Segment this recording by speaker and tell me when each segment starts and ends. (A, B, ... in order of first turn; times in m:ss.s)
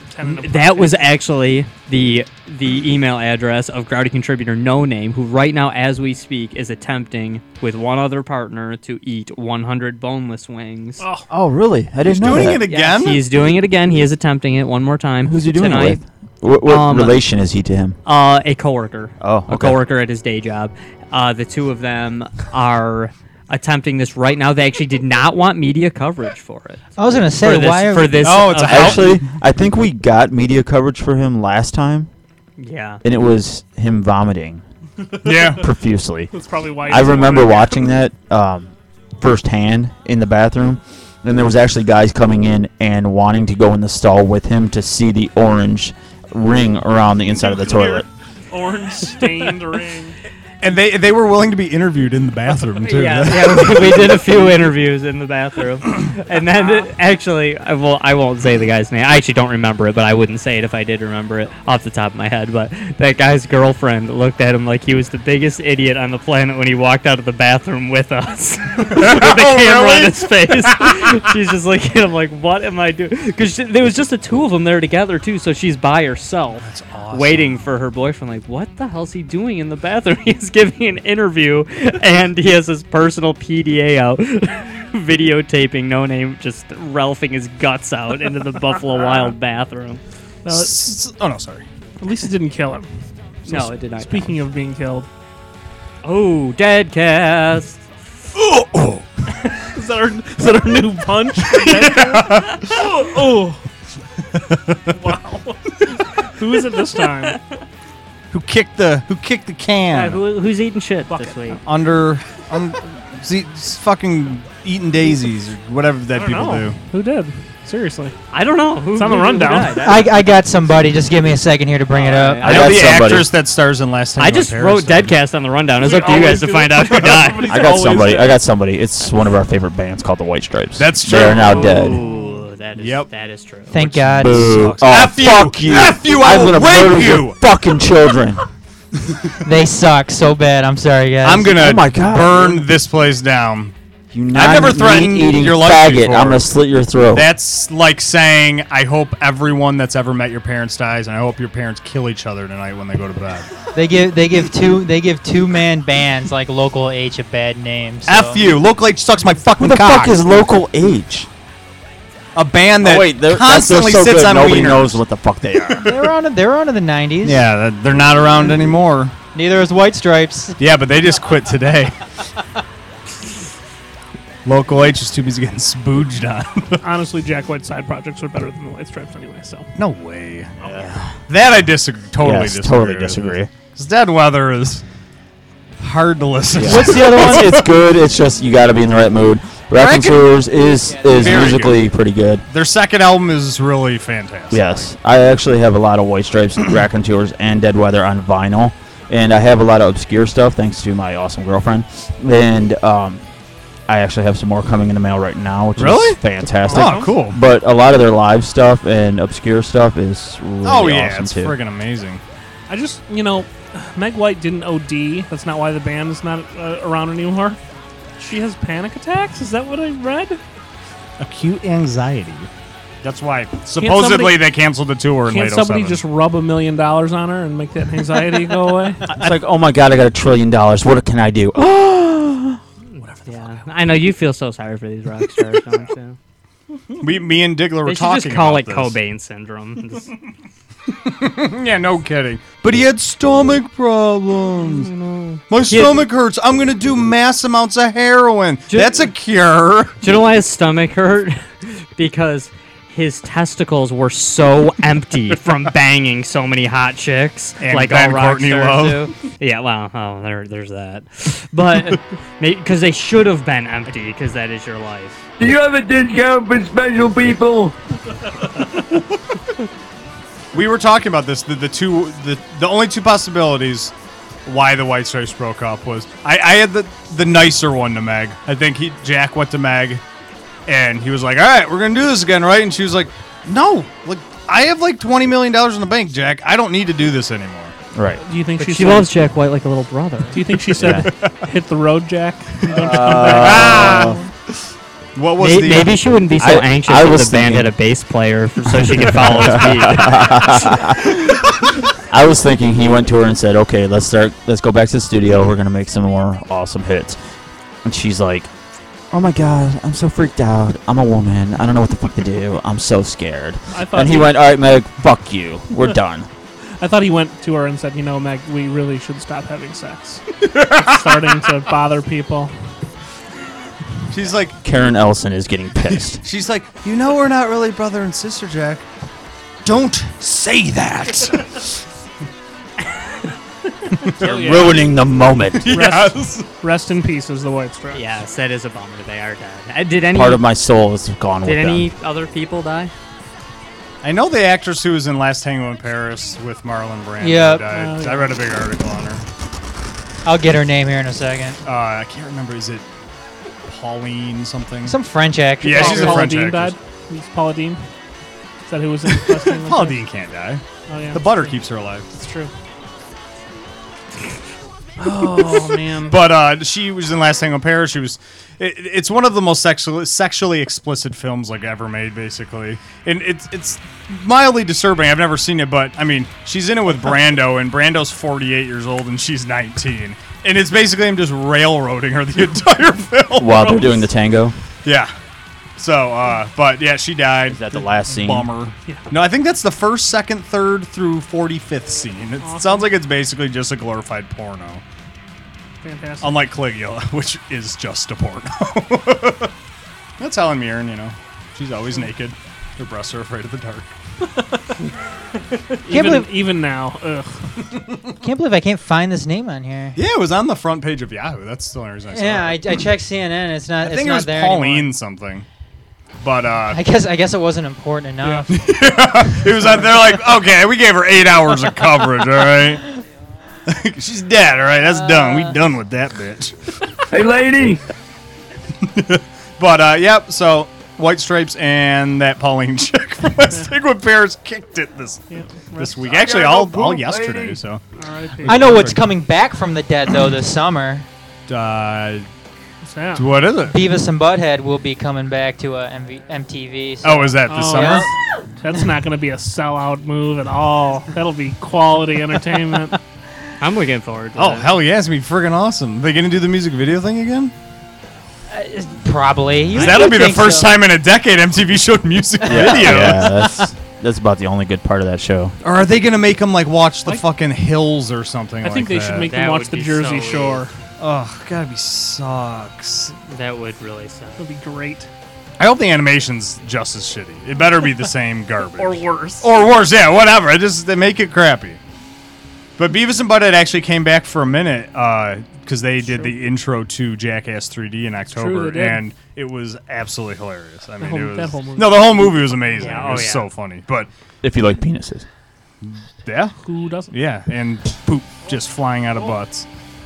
0:00.1-0:01.1 A
0:00.2-0:11.0 B
0:11.0-0:11.3 A
0:11.3-0:12.6 C
0:12.0-0:13.2 D
0:12.4-0:16.0 B
0:15.2-0:18.0 C
0:16.6-0:17.2 B
0:18.0-0:29.2 B
0:19.2-0:19.8 C
0:27.0-0:28.6 E
0:28.2-0:29.2 D
0:28.6-0:32.1 C
0:32.6-0:33.0 B
0:33.0-0:34.6 C
0:35.2-0:35.6 D
0:35.6-0:36.3 C
0:36.3-0:37.8 A
0:36.8-0:48.0 C
0:47.5-0:50.2 A
0:50.6-0:54.2 D
0:52.8-1:30.0 B
0:56.6-0:56.9 A
1:08.9-1:11.2 D
1:16.6-1:17.6 D
1:30.4-1:30.7 A
1:30.5-1:31.6 D
1:32.0-1:32.9 A
1:33.5-1:34.3 B
1:33.5-1:35.1 A
1:36.0-1:37.8 B
1:38.4-1:39.0 D
1:39.7-1:43.6 A
1:41.4-1:42.7 D
1:44.5-1:44.9 D
1:44.9-1:47.4 A
1:48.3-1:50.2 D
1:49.9-1:51.6 B
1:51.1-1:51.6 A
1:51.6-1:56.8 D
1:56.1-1:58.2 A
1:58.3-2:00.2 B
1:58.9-1:59.9 A
1:59.8-2:02.6 E
2:01.9-2:02.8 B
2:02.4-2:05.1 D
2:02.4-2:03.3 C
2:04.2-2:07.6 B
2:05.8-2:08.3 A
2:06.9-2:08.1 D
2:07.5-2:12.0 C
2:10.8-2:11.9 D
2:11.3-2:13.8 B
2:12.1-2:12.4 A
2:12.8-2:13.1 D
2:13.7-2:14.7 E
2:14.1-2:18.4 C
2:14.2-2:17.4 D
2:19.4-2:21.6 E
2:21.2-2:23.7 D
2:21.5-2:22.6 C
2:24.1-2:27.3 C
2:24.3-2:26.5 D
2:27.1-2:33.5 D
2:33.7-2:38.4 E
2:38.0-2:40.2 D
2:39.6-2:41.3 C
2:42.4-2:45.0 D
2:42.8-2:45.9 C
2:45.6-2:46.0 D
2:45.8-2:47.4 E
2:47.2-2:49.1 D
2:49.3-2:50.6 E
2:50.6-2:52.0 D
2:54.4-2:56.8 D
2:56.8-2:59.7 A
2:59.8-3:00.5 D
3:00.6-3:01.1 C
3:01.3-3:04.8 D
3:02.2-3:03.5 C
3:05.8-3:07.6 D
3:06.5-3:12.4 C
3:09.7-3:10.3 D
3:11.0-3:11.8 D
3:12.5-3:14.9 D
3:14.5-3:23.2 C
3:23.9-3:31.5 C
3:25.8-3:27.4 D
3:26.6-3:27.2 A
3:30.6-3:32.2 D
3:32.7-3:37.6 A
3:38.2-3:40.4 A
3:41.2-3:42.5 D
3:43.0-3:46.0 D
3:43.8-3:44.4 A
3:45.3-3:49.0 A
3:49.1-3:52.6 C
3:53.2-3:56.2 B
3:57.0-3:59.0 D
3:57.8-4:00.1 B
4:00.9-4:04.9 D
4:04.6-4:06.0 B
4:05.5-4:10.0 D
4:08.7-4:09.1 B
4:10.0-4:25.2 B
4:17.6-4:19.1 D
4:25.4-4:27.8 F
4:30.5-4:33.9 D
4:34.4-4:40.0 D
4:40.7-4:47.7 D
4:47.9-4:48.2 C
4:48.2-4:49.1 A
4:48.6-4:50.4 B
4:50.3-4:54.3 A
4:50.8-4:51.1 C
4:51.0-4:51.3 D
4:52.7-4:54.2 D
4:52.8-4:54.2 C
4:55.2-4:56.0 D
4:55.4-5:00.6 B
4:56.4-4:57.7 C
4:58.9-5:01.4 C
5:02.1-5:07.2 C
5:07.8-5:08.5 C
5:09.1-5:16.3 C
5:13.7-5:14.3 A
5:16.8-5:22.5 A
5:20.4-5:21.2 D
5:24.1-5:24.6 D
5:24.6-5:26.2 C
5:25.9-5:28.8 D
5:29.6-5:31.8 D
5:34.1-5:34.8 D
5:34.2-5:34.8 A
5:34.2-5:35.8 C
5:35.5-5:36.5 D
5:35.7-5:38.0 A
5:37.9-5:40.4 B
5:40.1-5:41.9 C
5:41.4-5:42.9 B
5:44.0-5:49.2 D
5:47.2-5:47.6 E
5:47.7-5:48.3 A
5:50.2-5:51.6 E
5:51.6-5:52.8 D
5:53.7-5:55.0 D
5:54.8-5:56.3 E
5:55.6-5:56.8 D
5:55.7-5:57.8 A
5:58.7-6:00.0 A
5:59.1-6:02.1 D
6:00.9-6:01.6 A
6:02.1-6:02.5 A
6:05.0-6:06.2 A
6:05.0-6:23.9 D
6:23.4-6:24.6 C
6:24.8-6:25.1 D
6:25.8-6:34.8 D
6:27.5-6:28.5 C
6:32.4-6:32.9 A
6:35.8-6:36.4 A
6:36.2-6:39.5 D
6:40.2-6:44.0 D
6:45.5-6:47.5 A
6:45.9-6:46.3 E
6:48.2-6:50.0 E
6:49.9-6:52.9 D
6:52.1-6:54.9 E
6:53.8-6:55.4 D
6:56.2-6:56.8 D
6:56.7-6:58.6 E
6:58.2-7:02.8 D
6:59.4-6:59.9 E
7:03.7-7:06.7 D
7:04.9-7:05.6 E
7:07.1-7:07.8 F
7:08.8-7:15.2 D
7:15.3-7:16.1 A
7:15.8-7:17.8 D
7:16.1-7:17.6 F
7:18.0-7:18.8 A
7:18.4-7:19.0 D
7:18.4-7:21.1 E
7:21.5-7:22.3 D
7:22.8-7:23.3 A
7:23.1-7:23.8 D
7:23.7-7:28.1 E
7:27.0-7:28.1 D
7:27.4-7:33.0 A
7:33.6-7:34.7 B
7:34.4-7:37.5 D
7:38.5-7:40.7 E
7:39.7-7:43.4 D
7:42.4-7:43.7 E
7:42.4-7:45.6 C
7:45.6-7:49.3 D
7:48.6-7:50.7 A
7:49.2-7:50.7 B
7:51.0-7:53.1 D
7:53.2-7:54.4 B
7:54.4-7:55.1 A
7:55.6-8:01.8 D
7:58.8-7:59.5 A
8:02.8-8:14.1 D
8:06.0-8:06.3 A
8:08.3-8:09.0 A
8:11.0-8:13.3 A
8:12.8-8:13.5 B
8:14.4-8:15.2 C
8:15.8-8:16.6 D
8:16.6-8:17.1 A
8:17.1-8:19.7 D